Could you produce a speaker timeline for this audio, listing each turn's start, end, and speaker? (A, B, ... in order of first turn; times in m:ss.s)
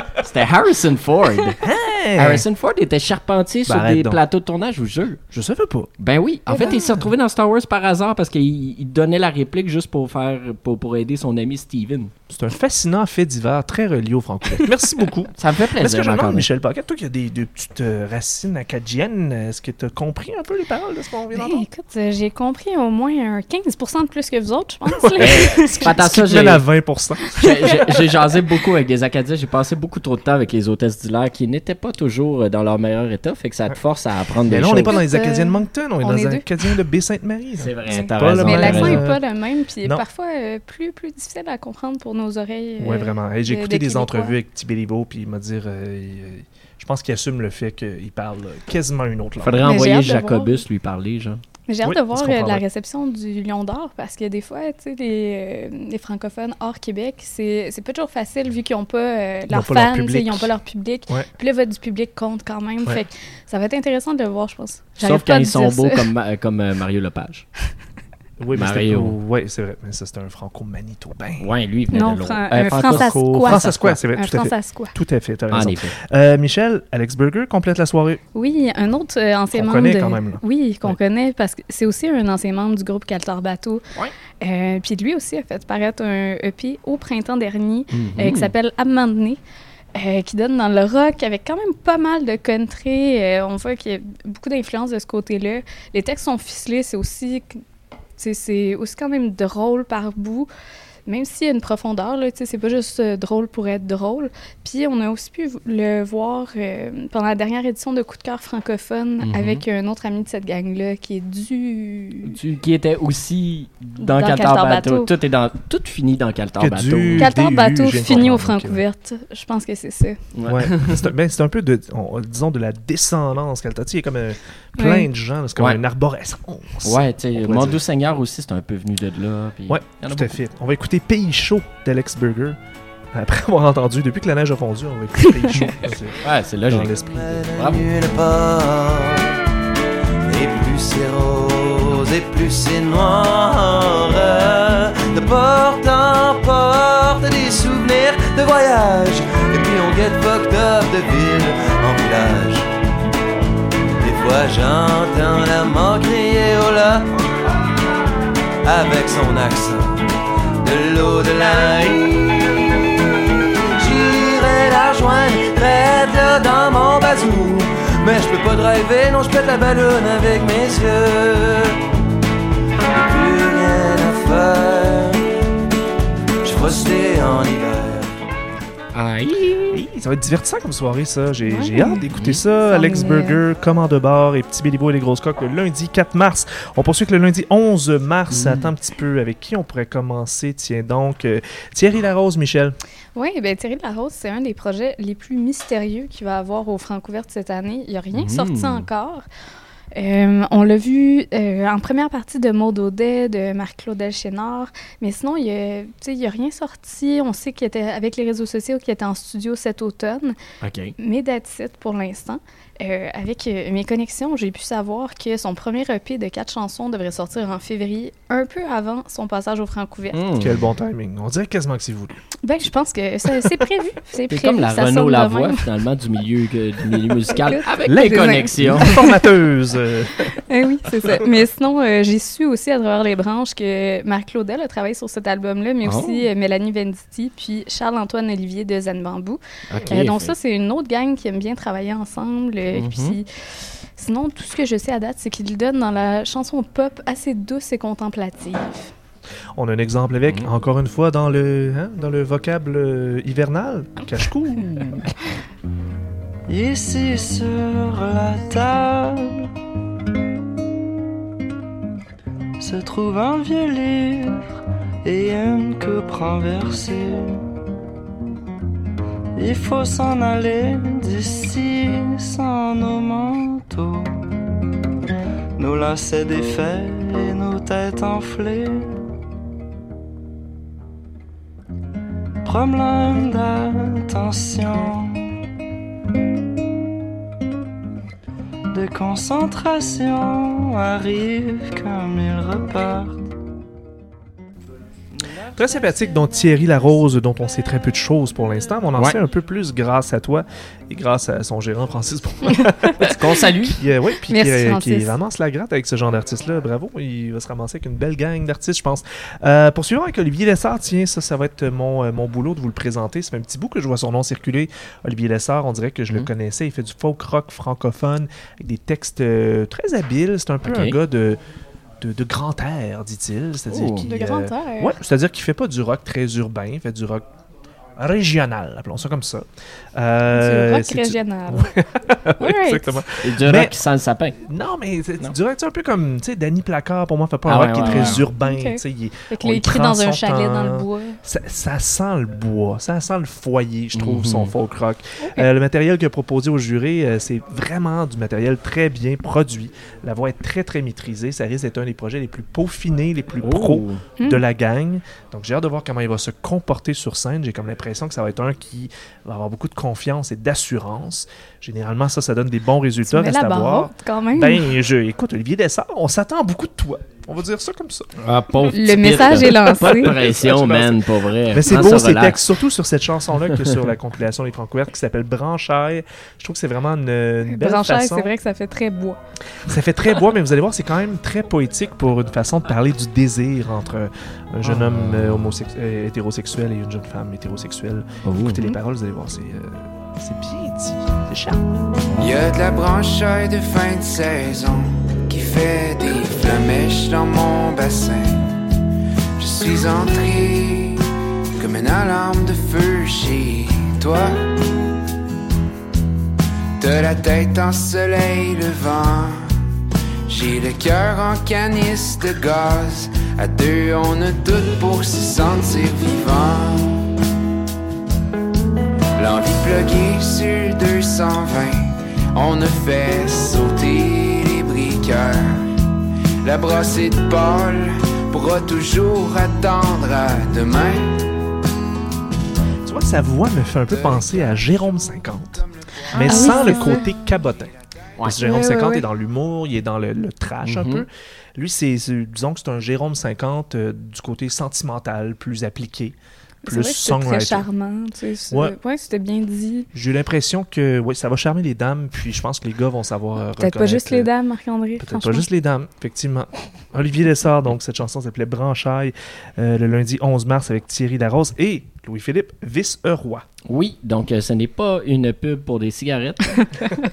0:00.2-0:01.6 A
0:01.6-0:02.4 B
0:02.2-0:05.2 A
0:03.7-0:04.2 B
0:05.3-0:05.9 B
0:06.0-0:12.1 A
0:06.5-0:07.1 B
0:12.3-0:21.6 B
0:15.4-0:16.5 A
0:21.3-0:25.9 C
0:25.0-0:27.9 B
0:25.2-0:26.6 A
0:27.4-0:35.0 A
0:34.4-0:39.2 B
0:34.8-0:36.4 C
0:37.6-0:39.0 A
0:37.9-0:44.3 C
0:42.8-0:49.7 B
0:49.4-0:51.4 A
0:49.6-0:50.6 C
0:51.7-1:06.1 C
0:51.8-0:52.6 B
0:59.5-1:00.5 B
1:05.0-1:07.4 A
1:08.4-1:11.5 B
1:08.5-1:09.2 A
1:11.4-1:14.0 A
1:11.9-1:14.9 C
1:12.7-1:18.2 B
1:15.5-1:15.9 A
1:18.3-1:23.8 C
1:19.5-1:21.0 B
1:24.4-1:29.4 C
1:27.9-1:28.5 A
1:29.9-1:37.6 C
1:38.2-1:40.5 C
1:41.0-1:52.3 C
1:49.2-1:49.6 A
1:52.2-1:57.3 A
1:54.0-1:55.1 C
1:56.6-1:58.8 B
1:57.2-2:00.2 C
2:00.3-2:01.0 A
2:00.5-2:07.8 B
2:04.8-2:05.1 C
2:06.8-2:10.4 A
2:09.7-2:12.6 B
2:13.1-2:17.5 B
2:16.2-2:17.9 A
2:17.2-2:19.3 D
2:20.2-2:32.7 D
2:34.0-2:37.1 D
2:38.6-2:40.0 D
2:40.6-2:43.2 D
2:43.7-2:51.8 D
2:52.9-2:55.2 D
2:56.4-2:58.1 D
2:58.9-2:59.8 A
2:59.7-3:12.8 B
3:01.5-3:02.0 C
3:02.1-3:02.4 A
3:02.6-3:03.4 C
3:08.3-3:08.7 A
3:13.1-3:19.2 C
3:18.1-3:18.9 A
3:19.9-3:30.4 C
3:30.6-3:30.9 A
3:31.0-3:40.2 C
3:40.1-3:40.6 A
3:40.3-3:42.2 B
3:42.4-3:45.6 C
3:43.3-3:43.6 B
3:44.3-3:48.9 A
3:47.4-3:49.2 C
3:47.9-3:50.2 B
3:50.4-4:03.2 C
3:55.8-3:56.3 A
3:59.7-4:00.3 A
4:02.7-4:03.2 A
4:04.0-4:08.9 C
4:09.5-4:14.9 B
4:16.5-4:19.5 E
4:22.6-4:24.4 E
4:25.0-4:27.4 E
4:29.4-4:34.1 E
4:35.6-4:39.0 E
4:42.4-4:45.3 E
4:48.7-4:53.2 E
4:55.5-5:21.4 B
5:03.0-5:03.8 A
5:04.3-5:05.1 C
5:20.6-5:21.0 A
5:22.0-5:27.2 B
5:23.7-5:24.1 A
5:24.1-5:24.9 C
5:28.0-5:33.8 B
5:30.3-5:31.7 C
5:32.4-5:33.0 C
5:33.2-5:34.4 A
5:34.4-6:08.1 B
5:37.5-5:38.3 A
5:37.8-5:41.2 C
5:43.9-5:44.5 A
5:53.4-5:54.0 A
6:03.0-6:04.7 C
6:08.2-6:12.4 A
6:08.6-6:18.3 B
6:08.7-6:10.1 C
6:17.5-6:19.2 C
6:19.6-6:31.6 B
6:24.6-6:25.6 A
6:28.2-6:28.6 A
6:32.2-6:38.5 F
6:39.4-6:41.0 F
6:41.6-6:44.4 F
6:46.8-6:49.5 F
6:50.3-6:57.0 F
6:59.2-7:05.5 F
7:06.4-7:11.2 F
7:12.8-7:27.6 B
7:13.8-7:15.5 F
7:16.2-7:17.0 C
7:18.4-7:19.0 C
7:20.6-7:21.0 A
7:26.6-7:29.9 C
7:29.9-7:34.3 B
7:33.6-7:35.4 C
7:35.0-7:43.4 B
7:43.7-7:46.7 A